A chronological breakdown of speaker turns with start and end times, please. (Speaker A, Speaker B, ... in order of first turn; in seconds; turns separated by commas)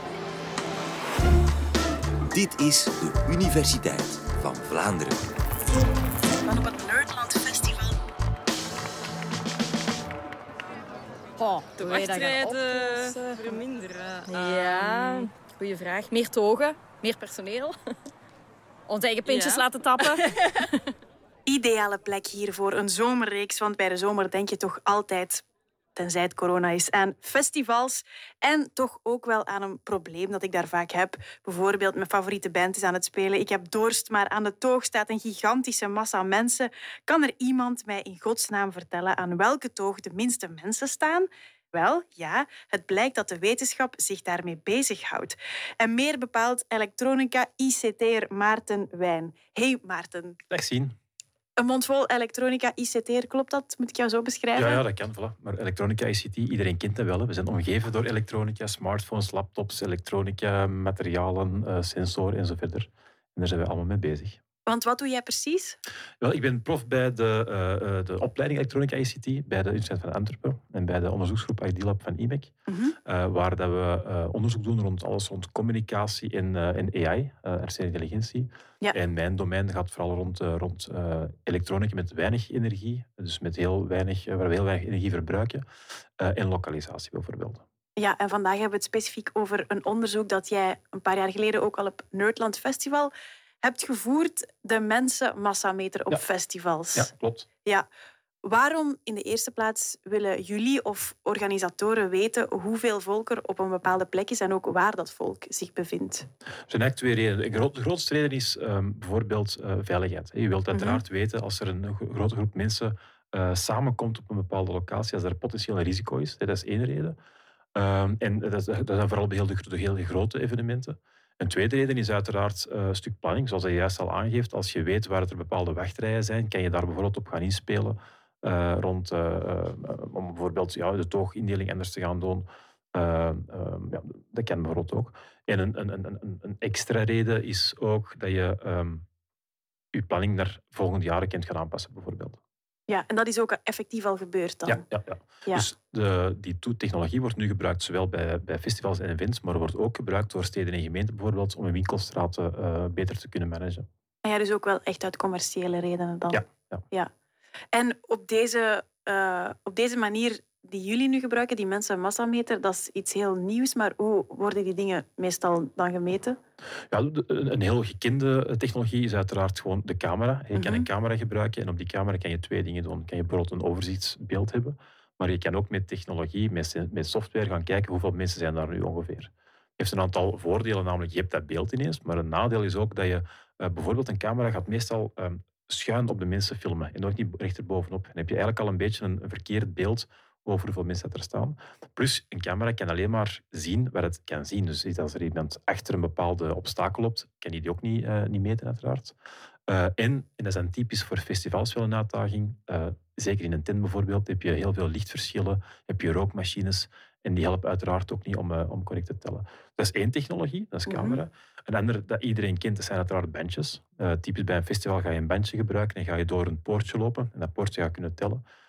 Speaker A: 2.3-5.3, Speaker B: 6.3-8.0, Speaker C: 11.4-13.6, Speaker D: 11.8-15.3, Speaker C: 14.3-17.8, Speaker C: 18.9-20.6, Speaker D: 19.3-19.7, Speaker B: 21.5-25.4, Speaker B: 26.0-50.4, Speaker E: 50.5-51.0, Speaker B: 51.6-54.8, Speaker E: 54.5-64.4, Speaker B: 64.7-65.8, Speaker E: 66.2-72.5, Speaker B: 72.7-73.0, Speaker E: 73.0-85.6, Speaker E: 86.2-87.6, Speaker B: 88.0-93.1, Speaker B: 93.6-97.1, Speaker E: 96.9-97.5, Speaker B: 98.4-106.3, Speaker E: 106.7-117.2, Speaker B: 110.7-111.0, Speaker E: 117.8-139.1, Speaker E: 139.9-142.4, Speaker B: 142.9-144.8, Speaker E: 144.7-153.9, Speaker B: 154.2-157.1, Speaker E: 156.3-156.8, Speaker B: 157.7-166.4, Speaker E: 166.9-199.2, Speaker B: 170.6-170.9, Speaker E: 199.7-218.4, Speaker B: 210.9-211.2